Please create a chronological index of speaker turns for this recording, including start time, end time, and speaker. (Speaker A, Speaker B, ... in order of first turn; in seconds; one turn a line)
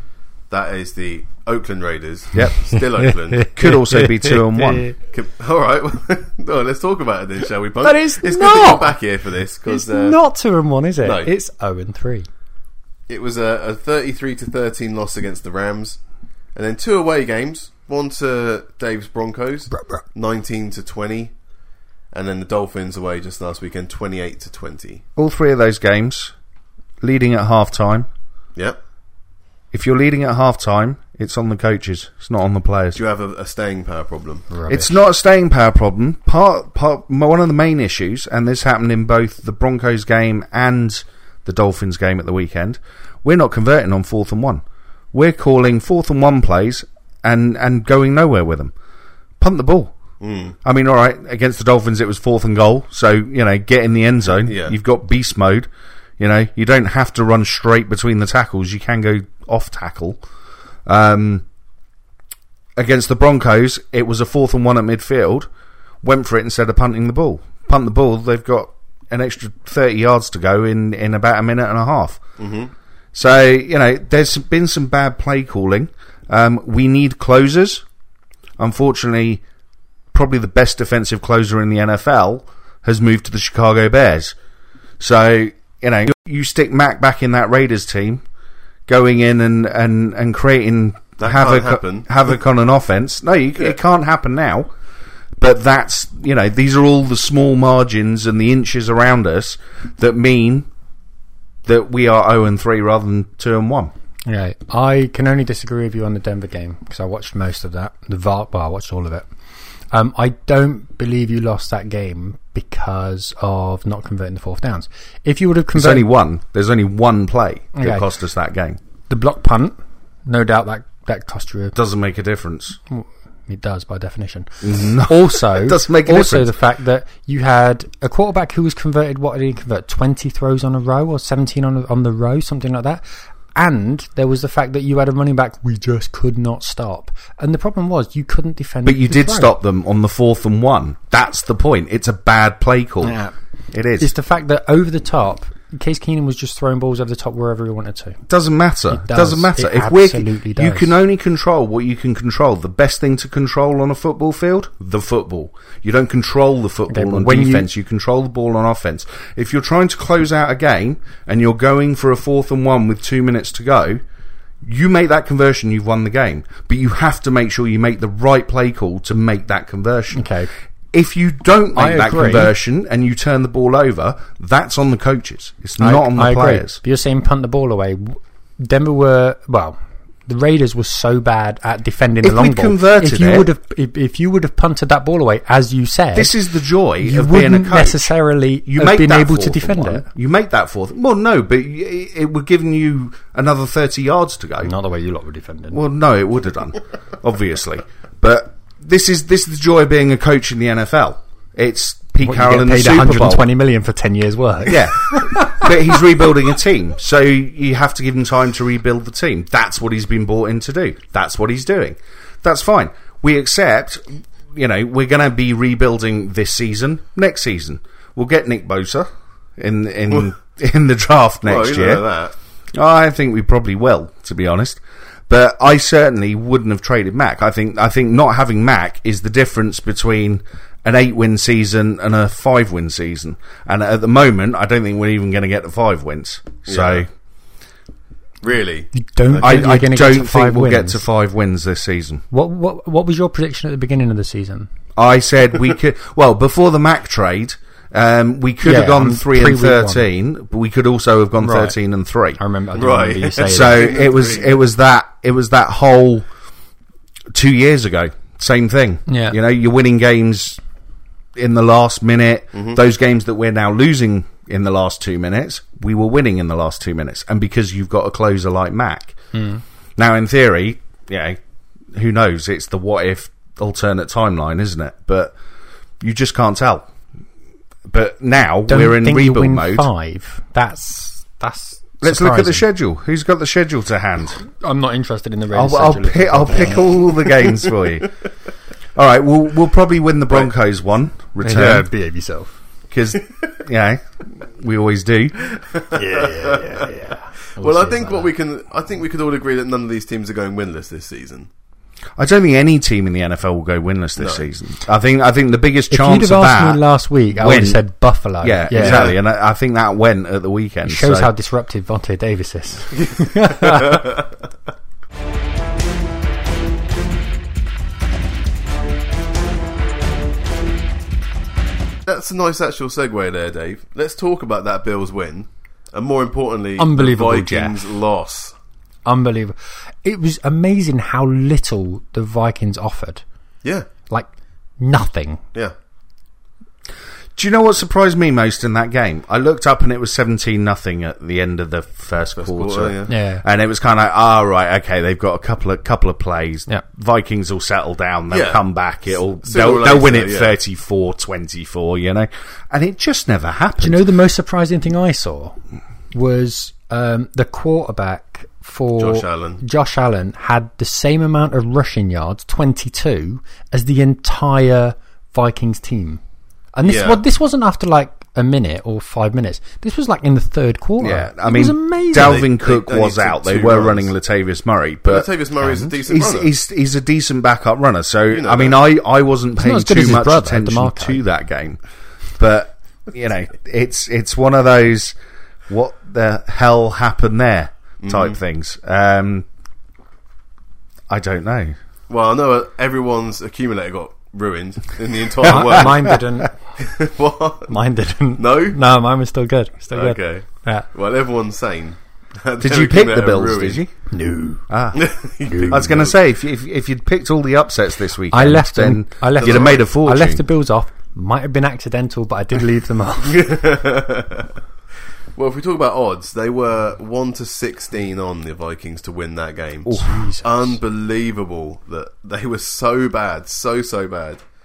Speaker A: 0.5-3.5
Speaker B: 2.3-2.6
Speaker C: 2.4-4.9
Speaker B: 3.5-4.9
Speaker A: 5.1-10.2
Speaker C: 7.8-8.9
Speaker C: 9.7-12.3
Speaker A: 11.0-11.3
Speaker A: 13.1-16.0
Speaker A: 16.5-21.3
Speaker C: 19.7-20.0
Speaker A: 22.1-25.0
Speaker B: 25.1-26.3
Speaker B: 27.0-28.1
Speaker B: 29.7-33.0
Speaker A: 32.9-34.5
Speaker C: 34.5-34.9
Speaker B: 34.7-48.7
Speaker B: 49.4-49.9
Speaker A: 50.2-50.5
Speaker B: 50.6-60.2
Speaker A: 54.4-54.8
Speaker B: 60.9-61.4
Speaker B: 62.8-65.5
Speaker B: 66.0-72.2
Speaker A: 72.4-72.7
Speaker B: 73.1-77.8
Speaker B: 78.6-79.4
Speaker B: 80.1-84.3
Speaker B: 85.0-88.2
Speaker B: 88.9-94.7
Speaker A: 91.2-92.1
Speaker B: 95.4-100.7
Speaker B: 101.7-103.9
Speaker C: 104.2-109.2
Speaker C: 109.9-116.0
Speaker B: 115.7-118.8
Speaker C: 117.7-118.1
Speaker C: 119.1-121.8
Speaker B: 121.7-122.8
Speaker C: 122.9-133.0
Speaker B: 124.6-126.5
Speaker C: 133.5-139.5
Speaker B: 138.8-143.2
Speaker C: 143.0-143.3
Speaker B: 143.7-144.1
Speaker C: 144.0-148.2
Speaker B: 148.3-164.0
Speaker C: 148.9-150.9
Speaker C: 156.9-157.7
Speaker B: 164.6-170.3
Speaker C: 170.1-170.5
Speaker B: 170.9-176.8
Speaker C: 171.7-172.5
Speaker C: 175.8-179.8
Speaker C: 180.3-186.3
Speaker B: 182.2-183.5
Speaker B: 186.1-188.1
Speaker C: 187.0-190.1
Speaker B: 188.7-194.7
Speaker C: 194.6-195.8
Speaker B: 195.7-203.5
Speaker C: 202.2-205.7
Speaker B: 204.7-222.0
Speaker A: 221.4-222.3
Speaker B: 222.7-237.1
Speaker A: 236.7-237.1
Speaker A: 238.4-239.6
Speaker C: 238.9-241.0
Speaker B: 239.4-242.2
Speaker C: 242.3-244.7
Speaker B: 244.9-252.4
Speaker C: 248.6-250.1
Speaker C: 251.4-251.8
Speaker C: 252.4-254.0
Speaker A: 252.8-254.6
Speaker B: 253.5-256.2
Speaker B: 257.3-260.6
Speaker C: 259.1-259.4
Speaker B: 261.4-269.1
Speaker C: 269.3-269.6
Speaker B: 270.0-271.4
Speaker B: 271.9-275.3
Speaker B: 276.0-276.9
Speaker B: 277.9-279.9
Speaker C: 278.7-282.6
Speaker B: 282.0-284.4
Speaker C: 284.4-286.9
Speaker B: 285.5-288.1
Speaker B: 288.9-291.9
Speaker C: 291.4-292.5
Speaker B: 292.9-295.5
Speaker A: 295.5-297.1
Speaker C: 295.9-298.3
Speaker A: 297.6-301.5
Speaker B: 302.2-306.8
Speaker A: 304.2-304.4
Speaker C: 305.9-309.1
Speaker B: 307.4-307.8
Speaker B: 308.4-311.3
Speaker A: 308.7-309.2
Speaker C: 310.8-314.1
Speaker A: 313.0-314.3
Speaker A: 322.1-328.5
Speaker C: 326.8-327.9
Speaker C: 329.1-333.2
Speaker A: 333.6-333.9
Speaker C: 334.8-335.4
Speaker B: 337.4-354.0
Speaker A: 342.4-343.1
Speaker C: 343.1-343.4
Speaker A: 348.3-348.6
Speaker A: 349.1-350.6
Speaker C: 353.8-355.6
Speaker C: 356.1-366.2
Speaker A: 359.0-359.6
Speaker C: 366.8-372.4
Speaker A: 366.9-367.2
Speaker B: 371.0-381.8
Speaker A: 372.1-374.1
Speaker A: 375.1-376.5
Speaker A: 378.3-378.8
Speaker C: 379.6-381.2
Speaker B: 382.3-385.1
Speaker B: 385.7-389.4
Speaker A: 388.0-388.4
Speaker B: 391.1-391.8
Speaker A: 392.1-396.2
Speaker C: 395.4-396.5
Speaker A: 396.8-397.8
Speaker C: 397.7-400.9
Speaker A: 398.4-398.8
Speaker A: 399.9-403.8
Speaker B: 402.6-403.9
Speaker C: 404.1-404.7
Speaker B: 404.7-405.1
Speaker A: 404.9-406.1
Speaker C: 405.4-405.9
Speaker B: 405.6-410.4
Speaker C: 408.3-413.5
Speaker A: 409.4-409.9
Speaker A: 413.2-414.5
Speaker A: 415.4-424.4
Speaker B: 419.9-420.1
Speaker C: 420.0-420.7